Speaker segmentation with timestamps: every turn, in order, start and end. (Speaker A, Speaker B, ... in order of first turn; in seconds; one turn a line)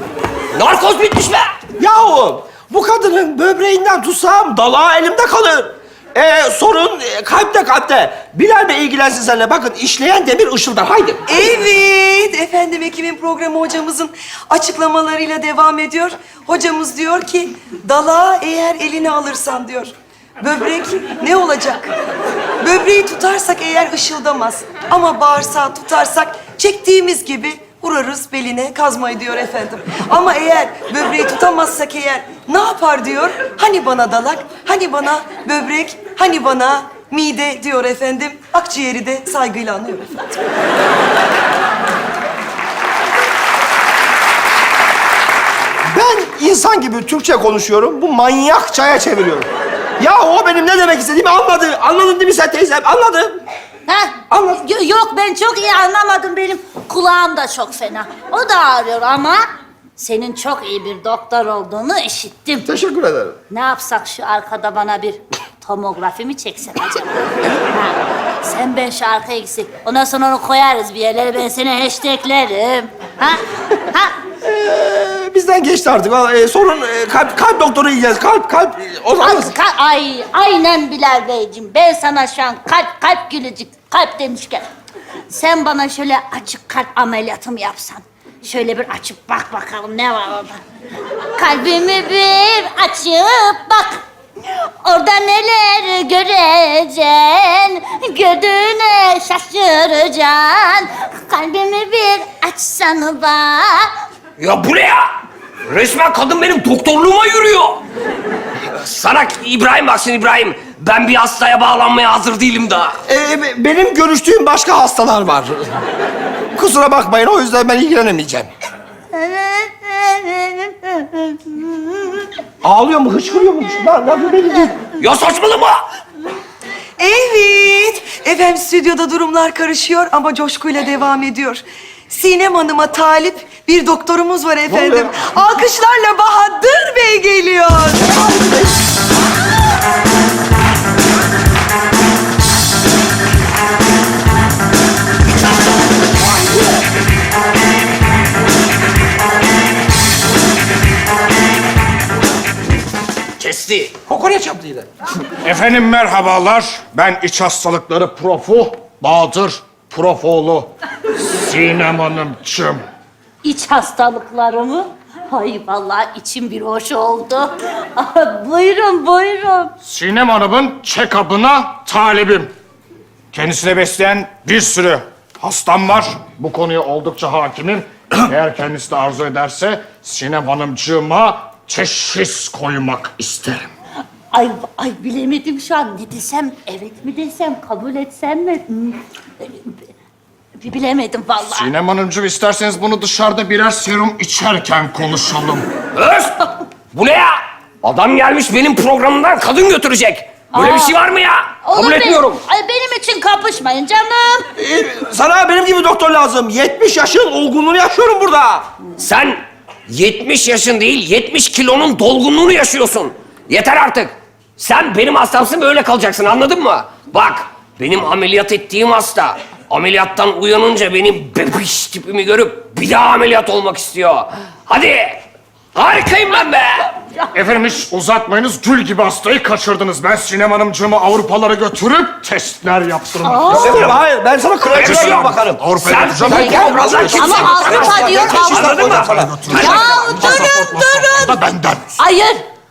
Speaker A: 0.5-1.5
Speaker B: 1.8-11.2
Speaker C: 11.3-21.9
Speaker C: 22.6-40.4
Speaker B: 45.9-49.5
Speaker B: 50.0-53.4
Speaker D: 53.9-59.4
Speaker B: 54.3-54.6
Speaker D: 60.0-62.7
Speaker B: 62.6-63.4
Speaker D: 63.5-74.1
Speaker B: 74.4-79.5
Speaker D: 79.2-84.7
Speaker D: 85.3-90.6
Speaker D: 91.4-94.0
Speaker D: 94.8-103.9
Speaker A: 104.4-105.1
Speaker A: 105.7-107.8
Speaker A: 108.7-113.0
Speaker B: 113.1-115.8
Speaker B: 116.5-118.5
Speaker D: 119.1-122.2
Speaker B: 122.6-124.8
Speaker A: 125.0-125.8
Speaker C: 127.0-138.1
Speaker B: 134.7-135.1
Speaker B: 138.0-138.8
Speaker B: 146.2-146.8
Speaker A: 153.4-154.4
Speaker B: 154.1-154.6
Speaker E: 155.4-160.7
Speaker E: 161.3-162.8
Speaker D: 163.4-169.7
Speaker E: 169.8-172.5
Speaker E: 173.3-183.7
Speaker D: 184.3-189.7
Speaker D: 190.6-191.7
Speaker E: 191.5-195.7
Speaker A: 195.9-202.4
Speaker D: 200.5-201.0
Speaker D: 201.6-204.5
Speaker B: 204.6-208.7
Speaker A: 209.0-225.2
Speaker A: 225.7-226.9
Speaker E: 227.3-234.0
Speaker D: 233.2-233.7
Speaker B: 233.5-239.5
Speaker A: 234.7-240.3
Speaker E: 234.8-242.0
Speaker D: 236.3-238.8
Speaker D: 239.5-242.4